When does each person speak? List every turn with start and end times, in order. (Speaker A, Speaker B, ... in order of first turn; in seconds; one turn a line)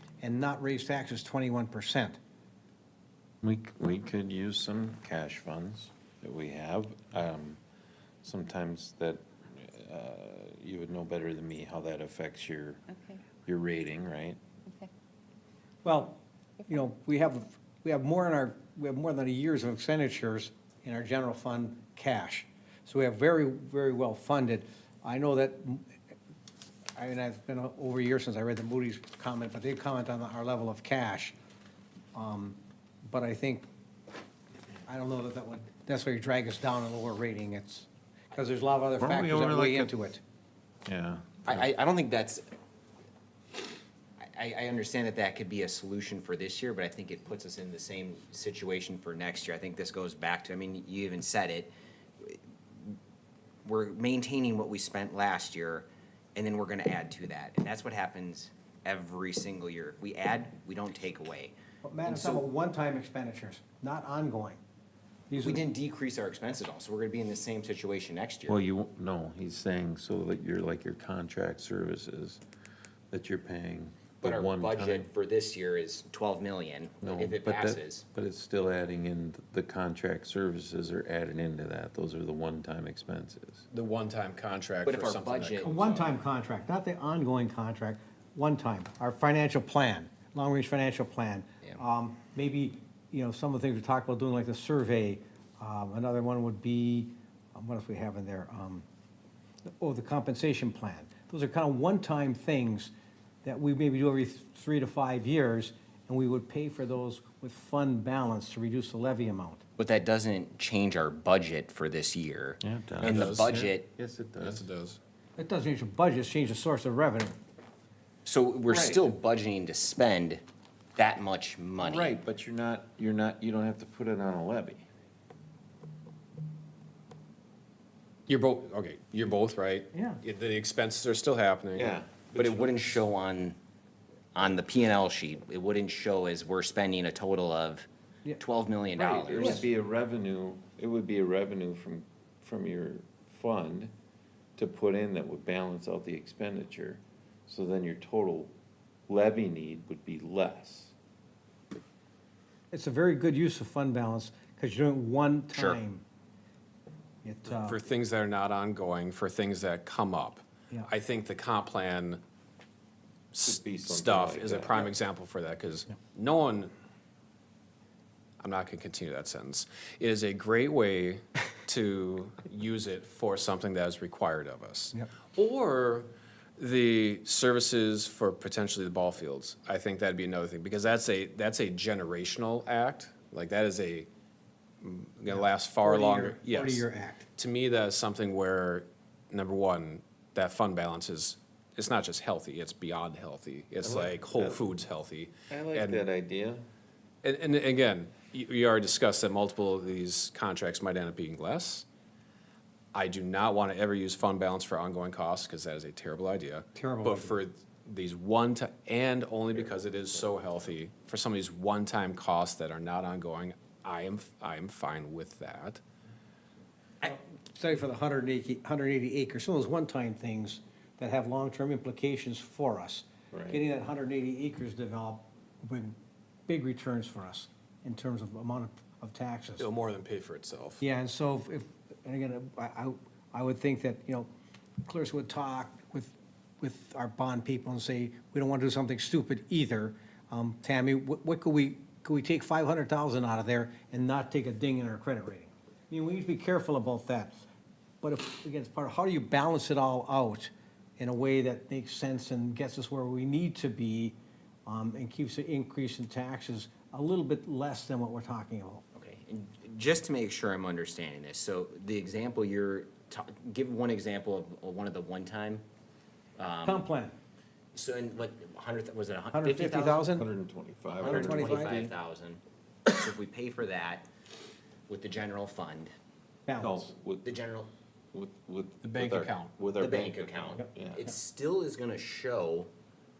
Speaker A: 0.2-2.2
Speaker B: 3.4-7.6
Speaker B: 8.2-12.9
Speaker B: 13.4-14.4
Speaker A: 15.8-25.9
Speaker A: 27.0-31.3
Speaker A: 32.1-33.7
Speaker A: 34.9-40.2
Speaker B: 39.0-39.9
Speaker B: 40.8-41.7
Speaker C: 41.5-42.4
Speaker C: 44.2-53.0
Speaker C: 53.6-62.4
Speaker A: 61.8-64.6
Speaker A: 65.3-65.6
Speaker C: 65.4-68.6
Speaker B: 68.5-72.4
Speaker B: 73.1-75.1
Speaker C: 74.2-78.0
Speaker B: 77.0-83.6
Speaker D: 83.7-86.1
Speaker C: 84.8-85.8
Speaker A: 85.6-98.8
Speaker A: 99.8-102.9
Speaker A: 103.4-109.6
Speaker C: 109.8-113.9
Speaker B: 112.6-114.7
Speaker D: 113.0-113.5
Speaker D: 114.4-115.0
Speaker A: 115.4-117.3
Speaker C: 118.2-120.4
Speaker B: 118.7-119.1
Speaker C: 121.0-122.1
Speaker B: 121.8-124.9
Speaker D: 128.3-131.9
Speaker A: 129.9-130.2
Speaker B: 131.8-133.0
Speaker C: 132.3-133.6
Speaker C: 134.3-137.9
Speaker C: 138.4-139.7
Speaker B: 139.1-143.9
Speaker B: 144.6-148.5
Speaker B: 149.1-150.9
Speaker A: 152.7-156.0
Speaker C: 155.5-155.8
Speaker A: 157.2-157.8
Speaker D: 157.6-162.2
Speaker D: 163.3-166.7
Speaker B: 163.4-164.9
Speaker D: 168.4-184.1
Speaker D: 184.8-186.8
Speaker A: 185.3-187.2
Speaker D: 187.3-196.0
Speaker B: 193.8-194.6
Speaker B: 195.5-196.7
Speaker D: 197.2-201.8
Speaker D: 202.9-215.8
Speaker A: 206.7-207.3
Speaker A: 217.0-225.9
Speaker B: 223.3-223.6
Speaker A: 226.5-229.7
Speaker D: 229.6-230.8
Speaker A: 230.8-234.3
Speaker A: 234.8-247.4
Speaker A: 248.0-258.8
Speaker C: 258.9-265.6
Speaker C: 266.4-266.9
Speaker A: 266.6-267.1
Speaker C: 267.7-270.1
Speaker A: 269.3-270.3
Speaker B: 270.1-271.9
Speaker C: 271.0-274.1
Speaker A: 271.0-271.8
Speaker C: 274.9-275.9
Speaker A: 276.4-276.9
Speaker B: 276.6-277.3
Speaker C: 277.2-277.7
Speaker B: 278.1-281.1
Speaker D: 278.8-279.6
Speaker C: 279.7-282.7